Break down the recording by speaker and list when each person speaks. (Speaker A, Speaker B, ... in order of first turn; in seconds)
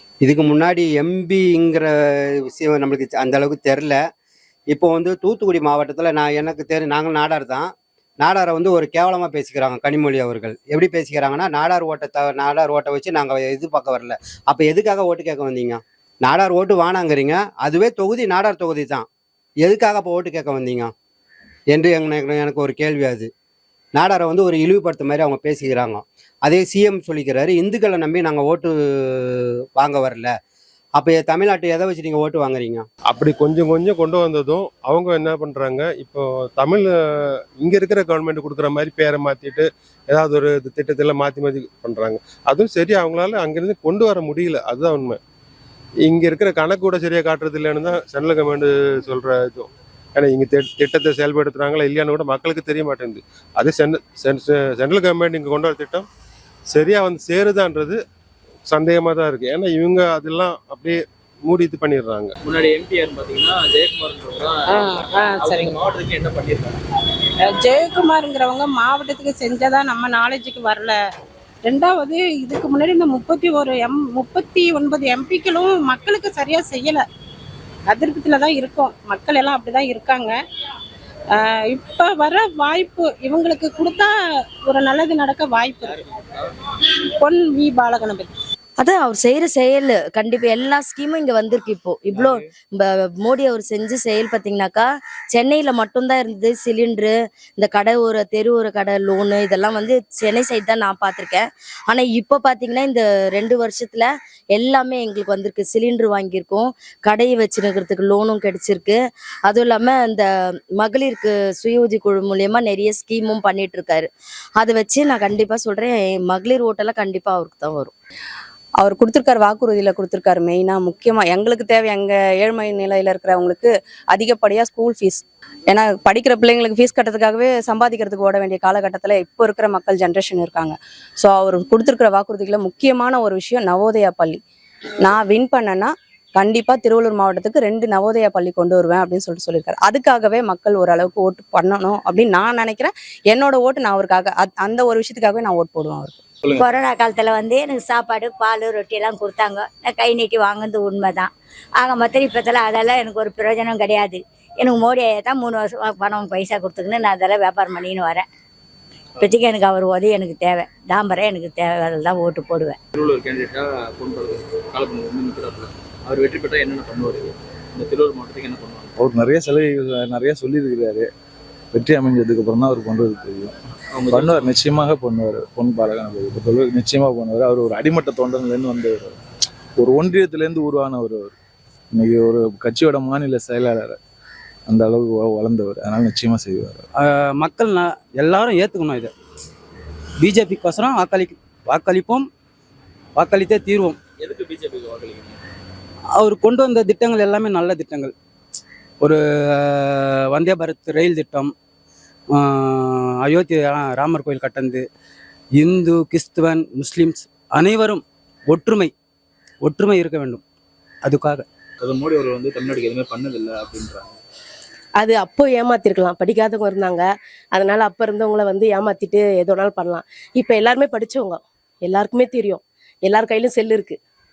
Speaker A: 0.2-1.9, 2.6-4.0, 4.7-7.7, 8.2-19.1, 19.6-20.9, 21.7-23.3, 24.0-28.7, 29.8-30.3, 31.0-32.9
Speaker B: 33.1-36.8, 37.6-45.2, 46.1-56.1, 56.7-58.0, 58.7-62.3
Speaker C: 62.4-66.8, 85.8-86.5, 92.1-92.4, 162.9-168.9, 173.9-174.5, 194.2-195.4, 211.8-214.2
Speaker D: 64.7-65.8, 67.4-71.0, 71.6-77.0, 77.9-80.3, 81.3-84.1, 84.7-86.0, 87.2-88.3
Speaker E: 88.8-110.2, 110.8-117.9
Speaker F: 118.8-134.4, 135.0-146.2
Speaker G: 146.6-158.2, 159.2-162.8
Speaker H: 169.0-171.1, 171.7-173.5, 174.1-179.2, 179.8-181.3, 181.9-184.0, 184.7-186.8
Speaker I: 187.0-189.1, 190.2-192.2, 193.2-194.0, 196.2-198.1, 199.0-201.5, 202.4-204.8, 205.6-208.9, 209.6-210.4, 211.0-211.4
Speaker J: 215.0-224.0